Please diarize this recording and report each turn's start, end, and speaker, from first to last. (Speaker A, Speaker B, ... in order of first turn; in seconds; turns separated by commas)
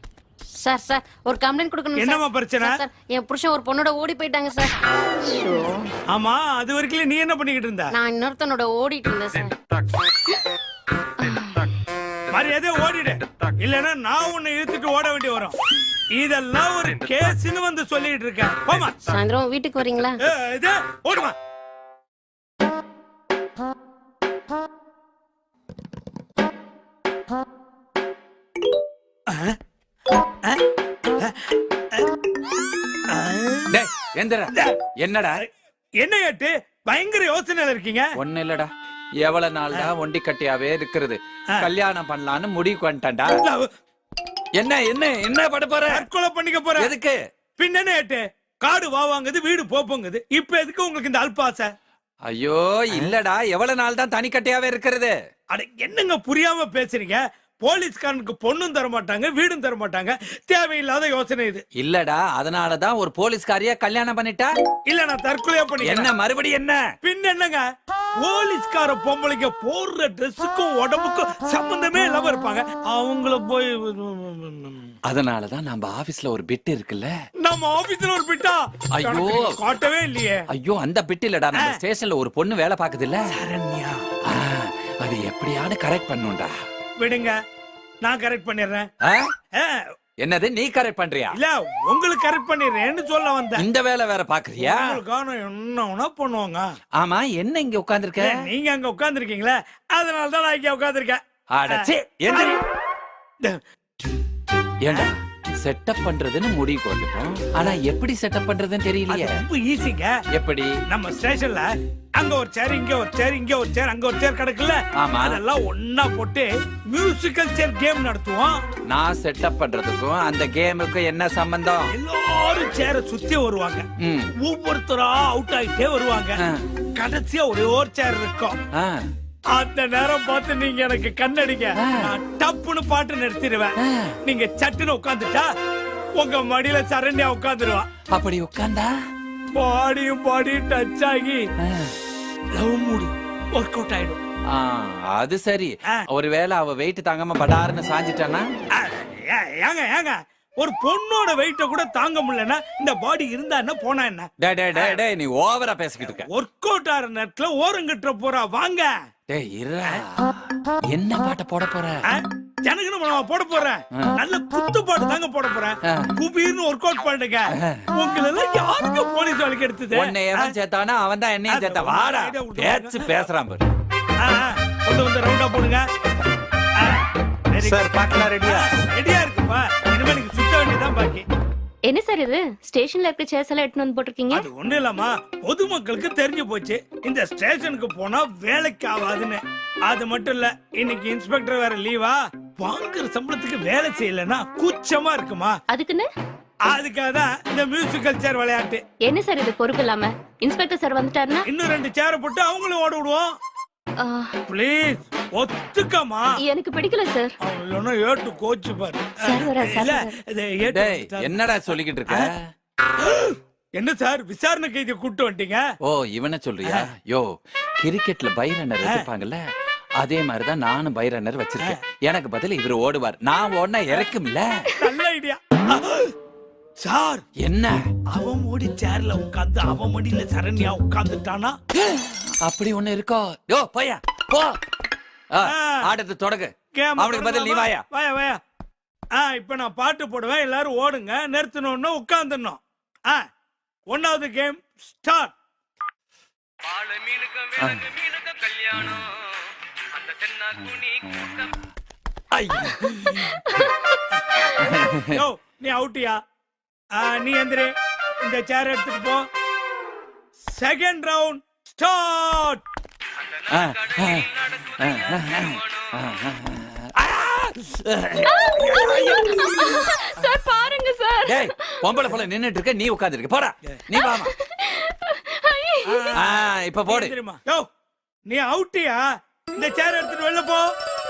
Speaker A: 0.6-4.7, Speaker B: 2.0-2.8, Speaker A: 5.3-5.6, Speaker B: 6.1-7.9, Speaker A: 7.9-9.6, Speaker C: 11.3-11.6, Speaker B: 12.3-15.5, Speaker B: 16.2-19.0, Speaker A: 19.0-20.2, Speaker B: 20.2-21.4, Speaker B: 29.3-29.6, Speaker B: 33.1-33.7, Speaker D: 33.7-35.4, Speaker B: 36.0-38.1, Speaker D: 38.2-38.7, Speaker D: 39.2-43.4, Speaker B: 43.4-43.7, Speaker D: 44.6-46.1, Speaker B: 45.9-46.9, Speaker D: 46.8-47.2, Speaker B: 47.6-51.7, Speaker D: 52.3-55.1, Speaker B: 55.5-61.6, Speaker D: 61.8-64.5, Speaker B: 64.9-66.1, Speaker D: 65.8-66.8, Speaker B: 67.0-67.6, Speaker B: 68.2-74.9, Speaker D: 75.1-77.1, Speaker B: 77.4-80.4, Speaker D: 78.9-79.6, Speaker D: 80.5-83.2, Speaker B: 83.3-84.0, Speaker D: 84.3-86.5, Speaker B: 87.0-87.4, Speaker B: 88.0-88.9, Speaker D: 89.0-89.3, Speaker D: 90.2-91.4, Speaker B: 91.3-93.6, Speaker D: 93.6-95.0, Speaker B: 94.6-96.6, Speaker D: 97.0-98.3, Speaker B: 98.2-102.6, Speaker D: 101.5-102.6, Speaker D: 104.8-109.4, Speaker B: 109.1-110.1, Speaker D: 110.3-110.8, Speaker B: 110.9-118.6, Speaker D: 115.0-115.4, Speaker D: 118.9-122.0, Speaker B: 121.9-123.9, Speaker D: 124.0-124.3, Speaker B: 124.4-126.4, Speaker D: 126.4-126.7, Speaker B: 127.0-128.6, Speaker D: 128.8-129.1, Speaker B: 129.5-135.5, Speaker D: 131.8-132.2, Speaker D: 133.8-134.2, Speaker B: 136.2-137.9, Speaker D: 138.1-138.9, Speaker B: 139.6-141.4, Speaker D: 141.6-141.9, Speaker B: 142.6-144.2, Speaker D: 144.5-148.4, Speaker B: 148.8-155.0, Speaker D: 154.4-156.3, Speaker B: 156.0-158.9, Speaker D: 159.3-162.0, Speaker B: 162.1-170.5, Speaker D: 169.9-173.7, Speaker B: 171.5-173.3, Speaker B: 174.2-175.8, Speaker B: 177.5-177.9, Speaker D: 177.8-178.5, Speaker B: 178.4-181.2, Speaker C: 181.9-184.5, Speaker B: 184.3-195.6, Speaker C: 195.7-196.1, Speaker B: 196.7-198.8, Speaker C: 199.1-201.5, Speaker B: 201.4-203.3, Speaker C: 204.0-204.4, Speaker B: 204.5-206.4, Speaker C: 206.4-207.3, Speaker B: 207.4-211.5, Speaker C: 209.2-210.2, Speaker D: 210.6-212.4, Speaker B: 213.2-215.6, Speaker D: 215.8-219.4, Speaker D: 220.0-224.7, Speaker B: 224.8-226.1, Speaker B: 226.8-227.2, Speaker D: 227.4-227.8, Speaker B: 228.1-231.6, Speaker D: 231.9-234.6, Speaker D: 235.3-237.8, Speaker B: 235.5-235.8, Speaker B: 236.8-238.4, Speaker B: 239.2-243.2, Speaker B: 243.9-245.3, Speaker D: 247.5-248.2, Speaker D: 248.7-249.2, Speaker D: 250.5-251.6, Speaker D: 252.3-253.4, Speaker B: 254.1-254.5, Speaker D: 254.6-255.2, Speaker B: 255.1-256.2, Speaker B: 256.9-257.7, Speaker B: 258.2-259.2, Speaker B: 260.5-262.6, Speaker D: 263.5-269.3, Speaker C: 268.2-272.0, Speaker D: 271.2-274.3, Speaker C: 274.3-276.1, Speaker B: 275.9-277.6, Speaker D: 276.2-277.1, Speaker B: 278.3-280.7